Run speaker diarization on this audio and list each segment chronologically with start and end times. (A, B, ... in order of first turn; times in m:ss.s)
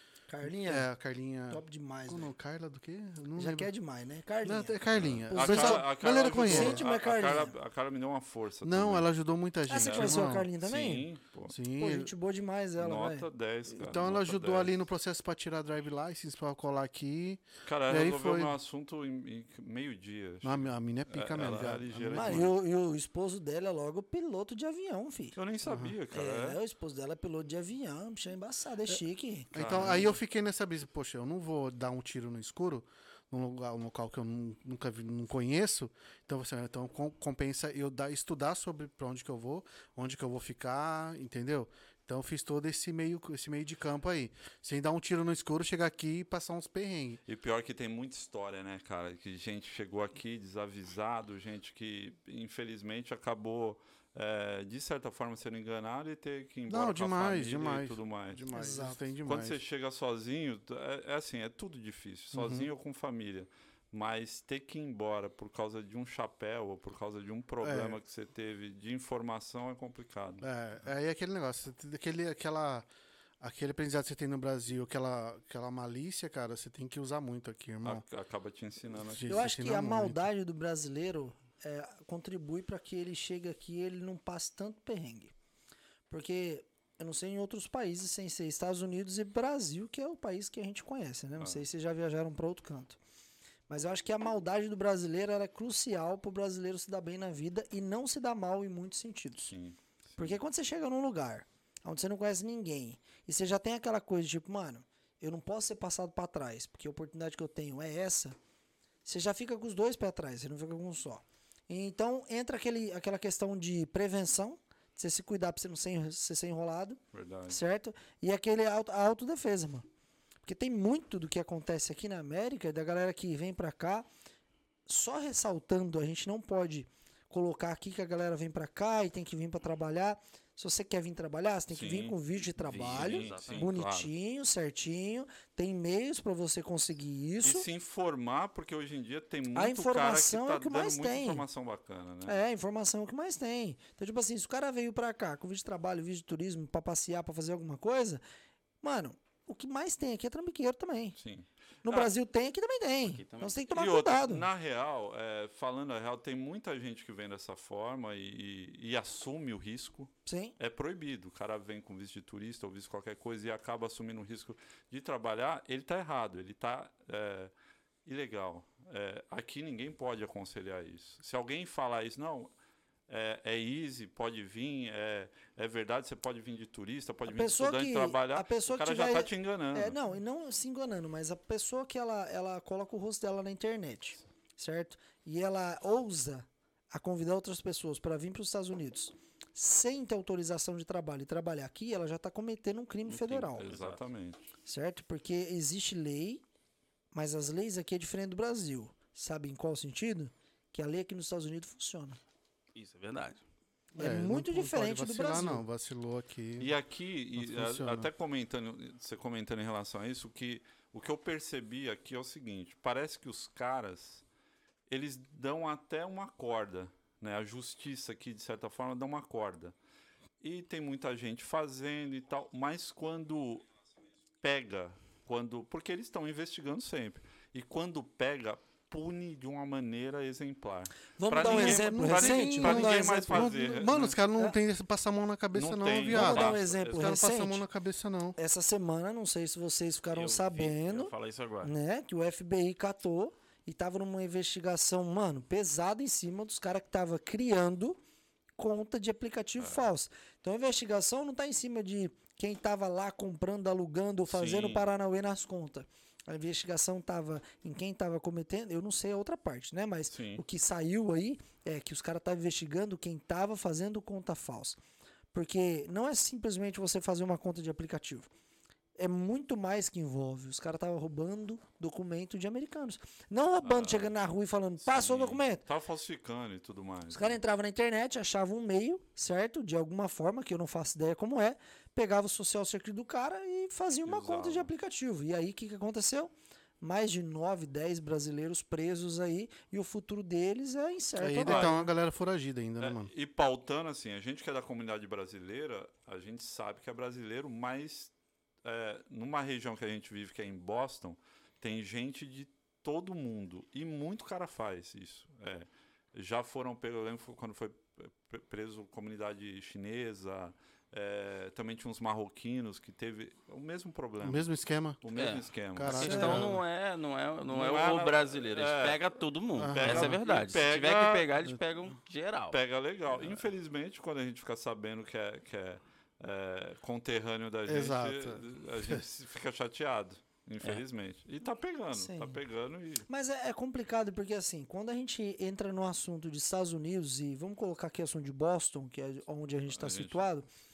0:00.3-0:00.9 A
0:00.4-0:03.7 B
0:01.5-0:02.3 A
0:03.4-0:04.8 A
0:04.4-0:06.8 B
0:04.9-0:09.1 C
0:05.3-0:07.5 A
0:08.6-0:10.5 B
0:09.7-0:11.1 A
0:09.8-0:11.6 C
0:11.5-0:12.1 B
0:11.7-0:13.3 A
0:12.8-0:14.8 C
0:13.7-0:18.6 B
0:17.6-0:22.5 C
0:20.4-0:22.5 B
0:22.1-0:25.4 A
0:25.4-0:26.6 C
0:25.6-0:26.0 B
0:26.1-0:29.5 A
0:29.5-0:47.2 B
0:29.5-0:30.2 C
0:47.2-0:58.5 C
0:56.7-0:59.6 B
0:58.5-0:59.0 A
0:59.2-1:10.4 C
1:02.3-1:02.7 B
1:07.6-1:08.0 B
1:10.4-1:12.9 B
1:13.4-1:18.0 B
1:17.8-1:19.4 C
1:19.0-1:20.3 B
1:19.3-1:25.3 A
1:26.1-1:33.0 A
1:31.4-1:31.6 C
1:33.7-1:39.5 A
1:39.5-1:40.4 C
1:40.2-1:48.4 A
1:49.0-1:59.8 A
1:57.1-1:57.6 C
2:00.4-2:04.1 A
2:04.8-2:17.6 A
2:11.7-2:14.1 C
2:12.6-2:13.7 D
2:17.4-2:22.4 C
2:19.5-2:21.4 A
2:22.2-2:28.2 A
2:28.8-2:31.2 A
2:31.2-2:32.1 C
2:31.8-2:34.5 A
2:33.0-2:33.6 D
2:33.7-2:47.5 C
2:40.2-2:40.5 A
2:48.0-2:52.5 C
2:53.1-3:00.0 C
2:57.2-3:13.7 A
3:13.1-3:14.0 D
3:13.6-3:14.5 C
3:14.6-3:16.4 A
3:17.1-3:22.2 A
3:22.7-3:23.4 D
3:24.0-3:25.6 A
3:24.0-3:26.7 B
3:26.6-3:34.2 C
3:27.4-3:28.1 B
3:34.9-3:39.7 C
3:40.4-3:43.6 C
3:44.4-3:54.2 C
3:51.2-3:53.6 A
3:51.4-3:58.4 B
3:55.5-3:57.2 C
3:56.1-3:57.6 A
3:58.4-4:08.0 A
4:00.1-4:01.7 D
4:08.6-4:24.8 A
4:09.6-4:09.8 C
4:14.3-4:14.8 C
4:20.1-4:20.4 C
4:25.3-4:28.3 A
4:29.0-4:35.6 A
4:33.6-4:34.1 C
4:34.8-4:37.4 C
4:37.1-4:51.9 A
4:44.0-4:44.7 C
4:51.2-4:53.1 B
4:51.4-4:51.7 C
4:52.8-4:58.1 C
4:58.6-5:14.5 C
5:14.2-5:15.0 B
5:15.0-5:16.6 C
5:15.1-5:22.6 D
5:15.7-5:16.6 B
5:16.0-5:16.4 A
5:17.5-5:19.0 C
5:19.6-5:20.2 B
5:19.7-5:21.3 C
5:22.5-5:33.0 C
5:27.7-5:29.0 B
5:31.9-5:32.4 A
5:33.1-5:40.4 A
5:39.7-5:40.2 C